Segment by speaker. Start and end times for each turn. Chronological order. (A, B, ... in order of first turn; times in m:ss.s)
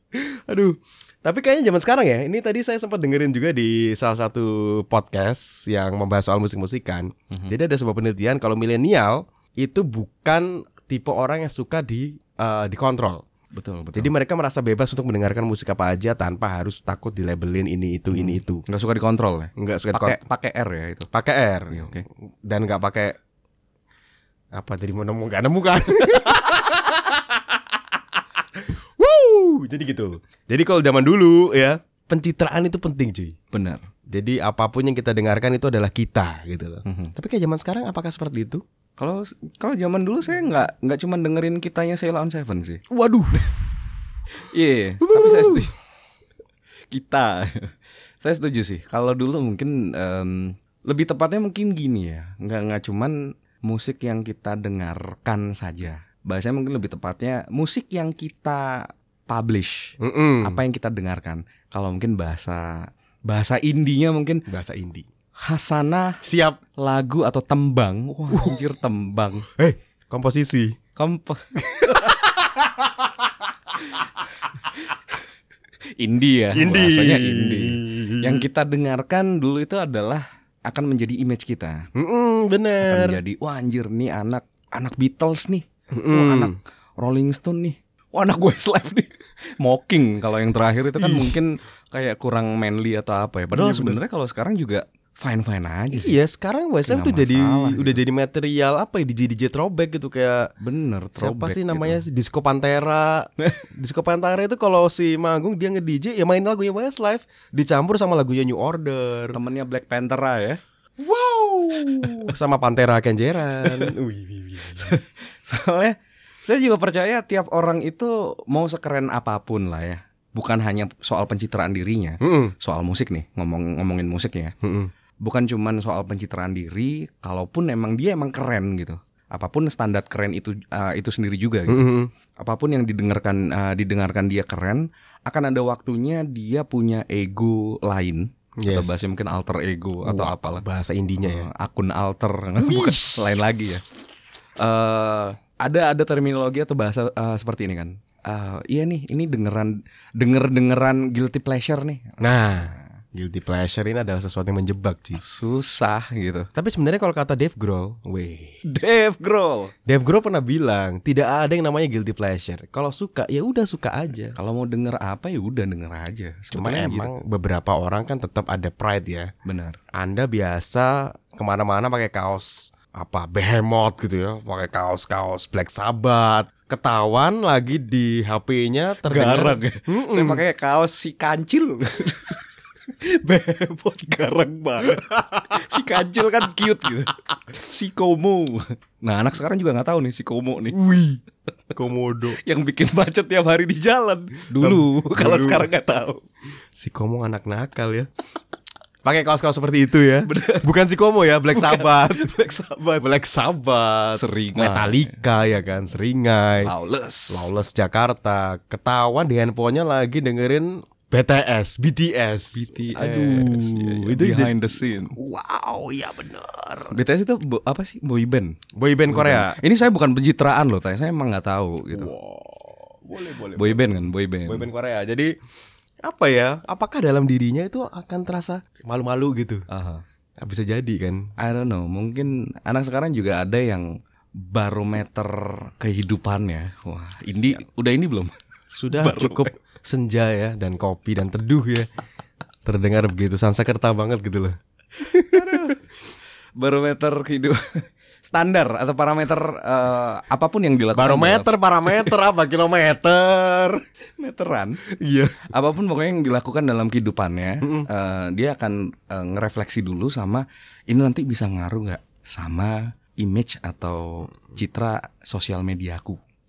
0:00.1-0:13.2 A
0:13.5-0:14.1 B
0:13.9-0:18.6 A
0:18.1-0:21.1 B
0:19.6-0:20.2 A
0:21.1-0:23.2 A
0:21.7-0:22.0 B
0:24.5-0:27.4 A
0:28.6-0:33.3 A
0:33.5-0:33.8 B
0:34.1-0:38.6 A
0:36.8-0:37.1 B
0:39.0-0:42.8 B
0:42.9-0:43.6 A
0:44.3-0:45.7 B
0:45.0-0:45.7 A
0:46.9-1:04.4 B
1:00.0-1:00.6 A
1:04.5-1:05.0 A
1:05.4-1:06.2 B
1:06.2-1:06.6 A
1:06.8-1:09.4 B
1:08.3-1:08.6 A
1:09.6-1:10.8 A
1:11.0-1:11.4 B
1:11.6-1:12.9 A
1:16.0-1:21.9 B
1:16.5-1:18.4 A
1:21.9-1:23.2 A
1:22.8-1:36.2 B
1:25.9-1:26.5 A
1:31.0-1:31.4 A
1:33.5-1:34.0 A
1:35.9-1:40.5 A
1:36.9-1:38.0 B
1:40.6-1:42.0 B
1:41.2-1:49.4 A
1:49.3-1:50.6 B
1:51.0-1:55.0 A
1:52.0-1:52.3 B
1:53.6-1:53.9 B
1:54.8-2:04.5 B
2:02.2-2:02.5 A
2:04.6-2:04.9 A
2:05.2-2:11.8 B
2:11.7-2:12.1 A
2:12.4-2:20.6 B
2:18.6-2:19.0 A
2:20.0-2:21.5 A
2:21.2-2:23.8 B
2:22.6-2:23.2 A
2:24.6-2:32.8 B
2:32.2-2:35.2 A
2:35.2-2:36.5 B
2:36.5-2:38.6 A
2:38.6-2:39.7 B
2:39.8-2:44.4 A
2:44.3-2:47.1 B
2:46.5-2:49.3 A
2:49.4-2:49.8 B
2:49.9-3:00.4 A
2:59.0-3:02.4 B
3:03.0-3:10.8 B
3:05.0-3:05.6 A
3:10.7-3:11.2 A
3:11.7-3:12.4 A
3:12.3-3:16.2 B
3:14.5-3:15.7 A
3:16.8-3:18.1 A
3:19.0-3:26.7 A
3:20.2-3:20.7 B
3:21.5-3:22.6 B
3:24.2-3:25.1 B
3:26.6-3:27.5 B
3:27.3-3:37.0 A
3:32.5-3:35.1 B
3:36.9-3:38.6 B
3:38.7-3:39.6 A
3:39.1-3:42.1 B
3:41.9-3:43.9 A
3:43.5-3:44.7 B
3:44.4-3:45.3 A
3:46.0-3:49.6 A
3:49.7-3:50.0 B
3:50.4-3:51.3 A
3:51.4-3:58.3 B
3:57.3-3:57.6 A
3:58.7-4:01.9 A
3:58.9-3:59.5 B
4:02.6-4:05.8 A
4:05.3-4:05.8 B
4:06.6-4:12.1 B
4:10.9-4:13.8 A
4:14.2-4:14.8 B
4:14.9-4:15.4 A
4:15.4-4:26.2 B
4:17.6-4:17.9 A